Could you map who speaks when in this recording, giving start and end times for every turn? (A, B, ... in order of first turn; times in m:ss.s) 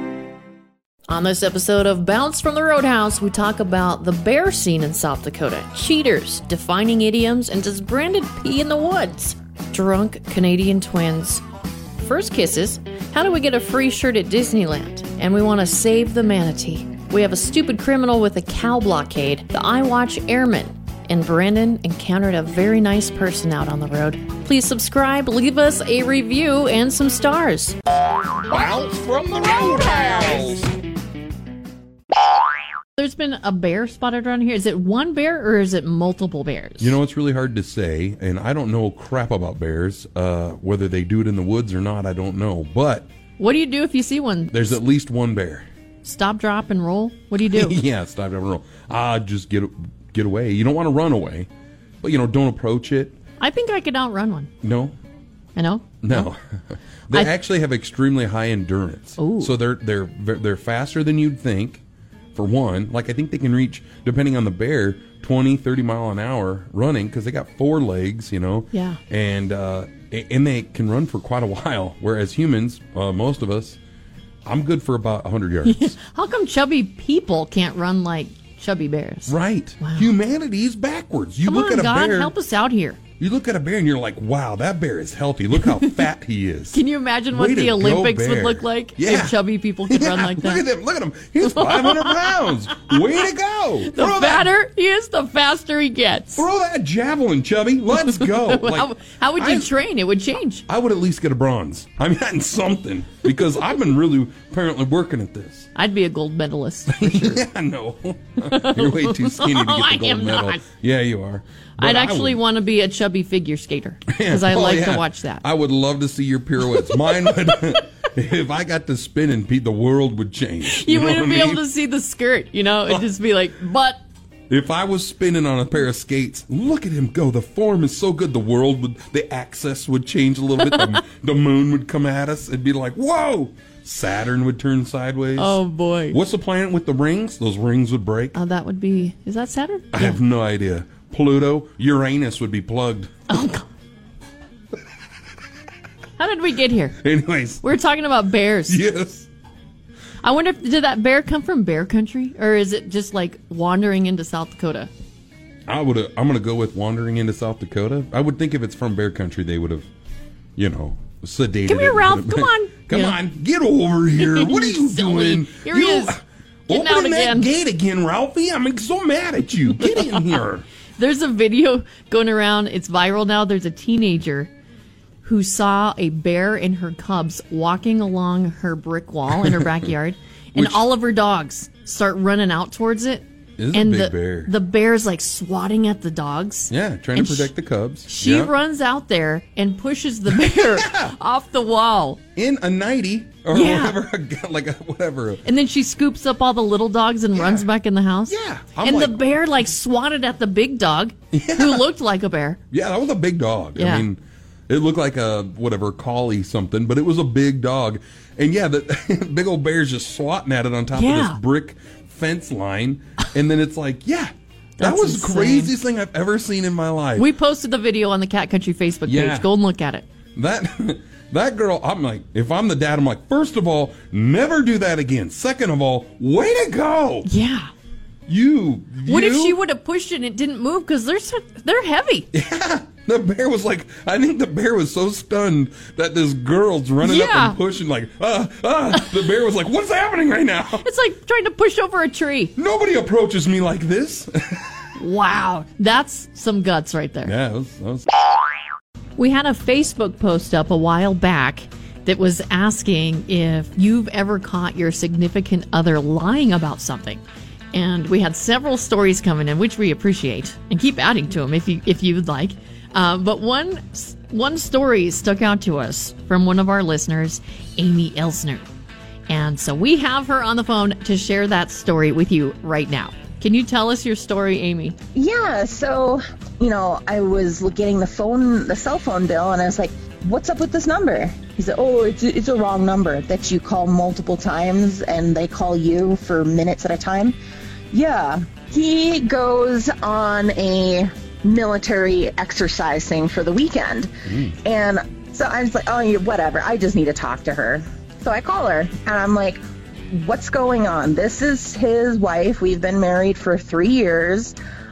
0:01.1-0:11.4 A
0:12.0-0:27.8 A
0:28.5-0:30.7 B
0:33.0-0:37.0 A
0:36.8-0:43.1 B
0:43.4-0:44.8 A
0:44.5-0:45.6 B
0:46.0-0:47.8 A
0:47.4-0:51.5 B
0:52.0-0:53.2 B
0:53.4-0:54.5 A
0:54.6-0:54.9 B
0:55.6-0:56.3 A
0:56.0-1:01.8 B
0:59.2-0:59.5 A
1:02.3-1:13.8 B
1:08.7-1:09.0 A
1:14.4-1:15.9 B
1:15.6-1:20.1 A
1:19.3-1:22.3 B
1:21.4-1:23.0 A
1:23.2-1:34.5 B
1:26.7-1:30.6 A
1:31.4-1:33.0 A
1:33.8-1:36.4 A
1:36.4-1:39.7 B
1:38.0-1:40.6 A
1:40.7-1:45.7 B
1:45.7-1:47.4 A
1:46.9-1:52.4 B
1:48.4-1:50.6 A
1:51.8-1:55.4 A
1:54.1-2:01.6 B
1:56.8-1:57.6 A
2:00.6-2:04.0 A
2:04.5-2:18.3 B
2:10.6-2:11.0 A
2:15.4-2:16.2 A
2:18.3-2:20.2 A
2:19.9-2:23.1 B
2:23.3-2:23.7 A
2:26.2-2:27.0 A
2:27.0-2:27.7 B
2:27.6-2:28.8 A
2:28.7-2:29.3 B
2:30.2-2:34.9 A
2:35.7-2:39.9 B
2:40.6-2:50.6 B
2:41.6-2:43.2 A
2:44.2-2:46.2 A
2:46.7-2:47.5 A
2:50.0-2:50.3 A
2:51.0-2:54.5 A
2:55.2-3:07.5 A
2:59.3-2:59.9 B
3:00.5-3:00.8 B
3:03.6-3:04.5 B
3:06.7-3:08.5 B
3:08.0-3:12.2 A
3:10.3-3:11.1 B
3:12.4-3:15.4 B
3:13.5-3:14.0 A
3:15.4-3:22.6 A
3:17.4-3:17.6 B
3:18.3-3:19.2 B
3:21.3-3:21.9 B
3:22.7-3:37.3 B
3:23.8-3:24.1 A
3:30.9-3:31.4 A
3:34.8-3:35.7 A
3:37.2-3:40.0 A
3:39.0-3:39.5 B
3:40.3-3:47.3 B
3:47.2-3:47.7 A
3:48.3-3:49.6 B
3:49.0-3:52.3 A
3:52.3-4:00.8 B
3:57.0-3:57.6 A
4:00.8-4:02.5 A
4:02.6-4:04.8 B
4:05.0-4:07.3 A
4:07.2-4:08.1 B
4:09.2-4:17.2 A
4:17.7-4:28.7 A
4:29.3-4:35.0 A
4:35.1-4:47.4 C
4:47.9-4:54.1 C
4:54.2-4:54.6 B
4:54.6-5:04.6 C